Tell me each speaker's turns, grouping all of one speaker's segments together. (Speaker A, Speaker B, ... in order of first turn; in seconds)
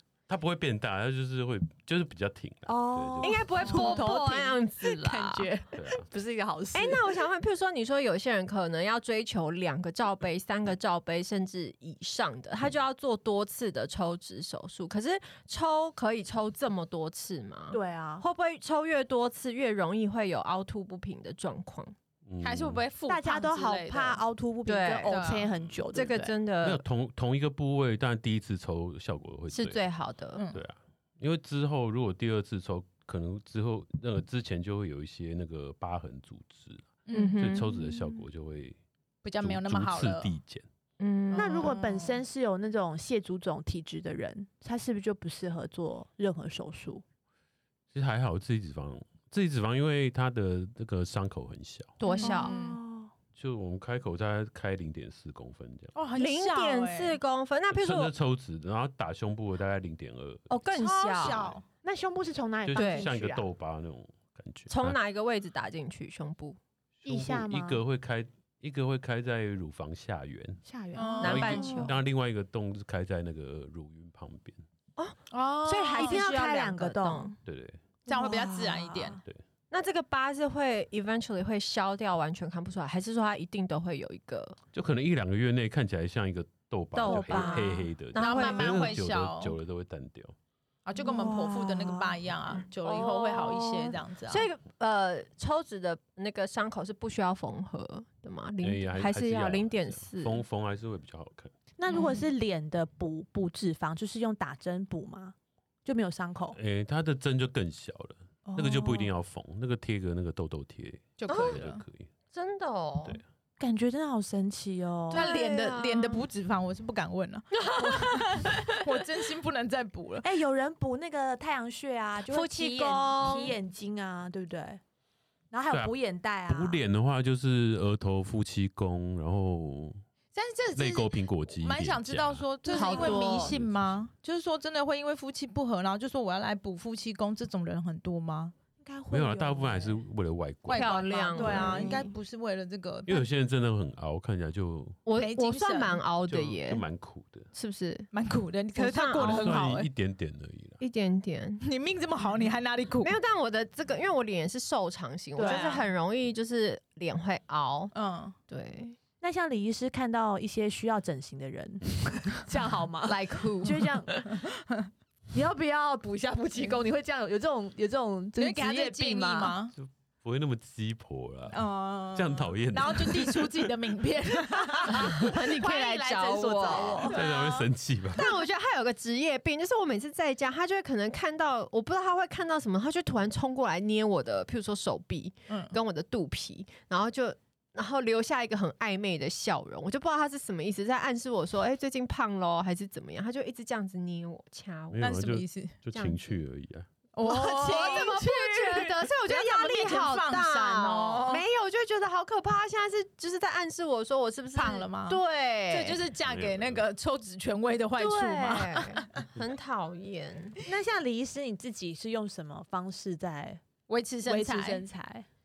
Speaker A: 0.3-3.5, 5.7-6.0, 22.2-22.8, 26.6-29.8, 30.5-38.8, 39.4-40.6, 47.9-51.9, 53.3-55.9, 57.7-60.5, 62.6-65.0, 67.0-70.6, 71.2-74.6, 77.4-77.8, 84.7-90.3, 98.6-101.5, 106.5-112.1, 126.5-130.0, 130.7-134.0, 139.1-142.0, 143.1-145.0, 146.3-147.5, 149.2-150.8, 169.7-173.5, 177.1-178.3, 194.9-196.9, 206.1-206.9
Speaker B: 2.6-7.2, 17.7-18.2, 23.1-26.4, 41.3-47.0, 52.1-53.1, 61.8-63.5, 67.0-67.8, 70.6-71.9, 75.7-77.3, 78.1-79.2, 87.0-87.9, 91.0-92.2, 101.8-106.6, 108.5-109.1, 113.6-115.3, 120.2-124.8, 125.5-126.8, 132.7-133.3, 138.8-140.0, 141.4-142.0, 155.3-155.8, 159.2-164.1, 165.3-169.6, 174.5-177.2, 197.2-198.8, 210.7-213.6, 214.2-215.3
Speaker C: 3.2-5.5, 6.7-21.9, 24.6-25.2, 25.9-26.8, 29.5-30.4, 37.1-37.9, 41.0-41.7, 52.0-52.5, 56.1-58.1, 60.5-61.5, 62.7-63.1, 64.7-66.6, 71.2-71.9, 75.9-77.3, 79.7-84.6, 86.9-88.9, 92.8-100.4, 111.3-111.7, 112.3-113.2, 115.1-116.3, 117.5-118.7, 122.3-123.6, 132.7-133.5, 140.7-142.1, 145.1-146.8, 147.5-148.1, 148.8-149.6, 150.8-151.6, 153.0-157.9, 158.5-159.0, 163.0-164.4, 174.9-195.2, 195.9-196.3, 197.4-206.0, 207.9-210.6
Speaker D: 3.7-3.9, 22.4-24.2, 25.1-25.5, 30.4-30.6, 37.1-37.4, 39.2-40.3, 41.3-42.2, 52.0-52.8, 55.9-57.2, 60.7-61.6, 71.0-71.9, 75.3-76.2, 78.1-79.2, 88.2-89.6, 90.8-94.5, 101.9-102.2, 111.2-111.8, 115.1-120.3, 130.3-138.5, 140.7-143.2, 145.2-146.0, 148.1-149.9, 151.6-153.2, 155.4-155.8, 157.9-158.3, 168.3-169.7, 171.5-175.3, 176.6-177.2, 185.5-185.8, 195.0-195.7, 197.1-201.4, 204.5-209.2, 213.9-214.8